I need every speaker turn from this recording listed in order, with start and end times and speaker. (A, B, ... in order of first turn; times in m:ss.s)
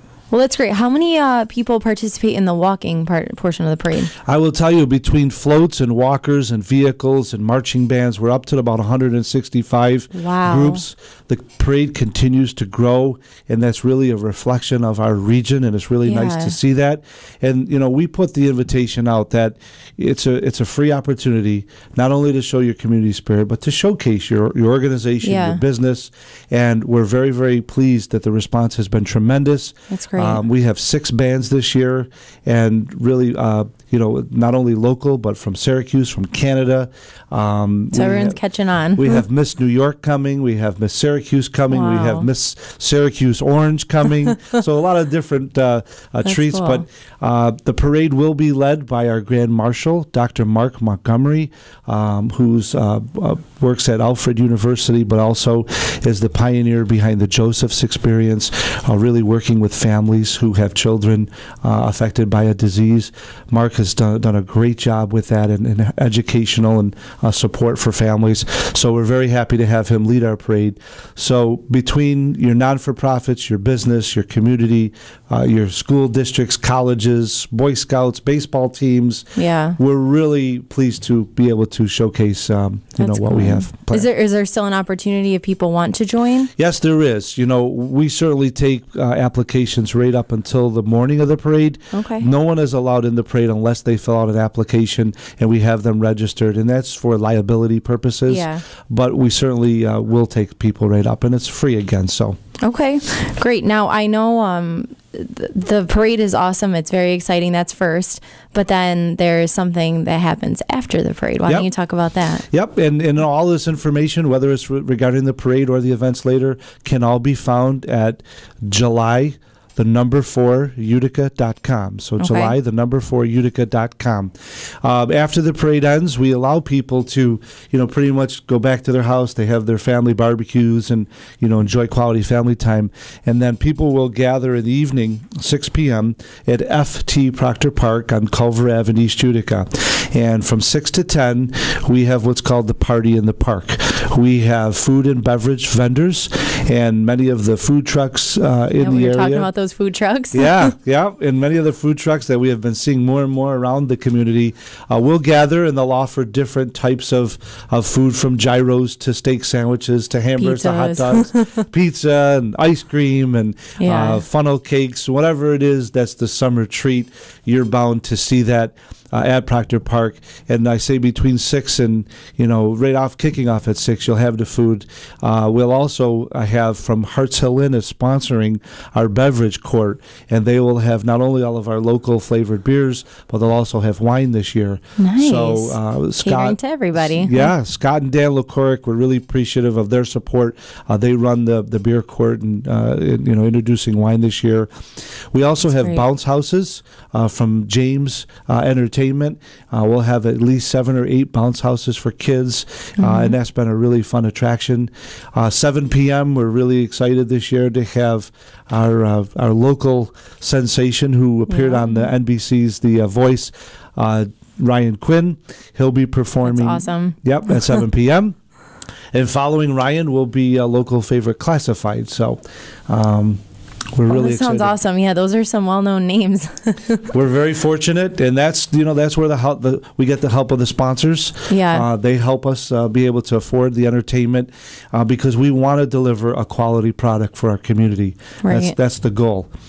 0:00.3-0:04.1 A
0:04.2-0:38.4 B
0:10.1-0:10.8 A
0:16.0-0:16.6 A
0:25.2-0:25.6 A
0:29.9-0:30.4 A
0:37.9-0:39.2 A
0:39.0-1:19.2 B
0:41.7-0:42.3 A
0:46.2-0:46.8 A
1:19.4-1:19.8 A
1:19.8-1:24.1 B
1:23.0-1:26.5 A
1:26.6-1:42.4 B
1:31.9-1:32.3 A
1:38.3-1:38.6 A
1:42.6-1:52.4 A
1:52.5-2:29.5 B
2:02.2-2:02.6 A
2:28.8-2:30.7 A
2:30.3-3:14.7 B
2:40.4-2:41.6 A
2:43.8-2:44.2 A
3:05.0-3:07.5 A
3:15.3-3:38.4 B
3:15.6-3:16.0 A
3:23.0-3:23.4 A
3:31.5-3:32.1 A
3:36.4-3:37.2 A
3:39.1-3:43.4 B
3:43.9-3:44.7 B
3:44.1-3:47.1 A
3:47.1-3:59.5 B
3:51.5-3:51.8 A
3:58.4-3:58.7 A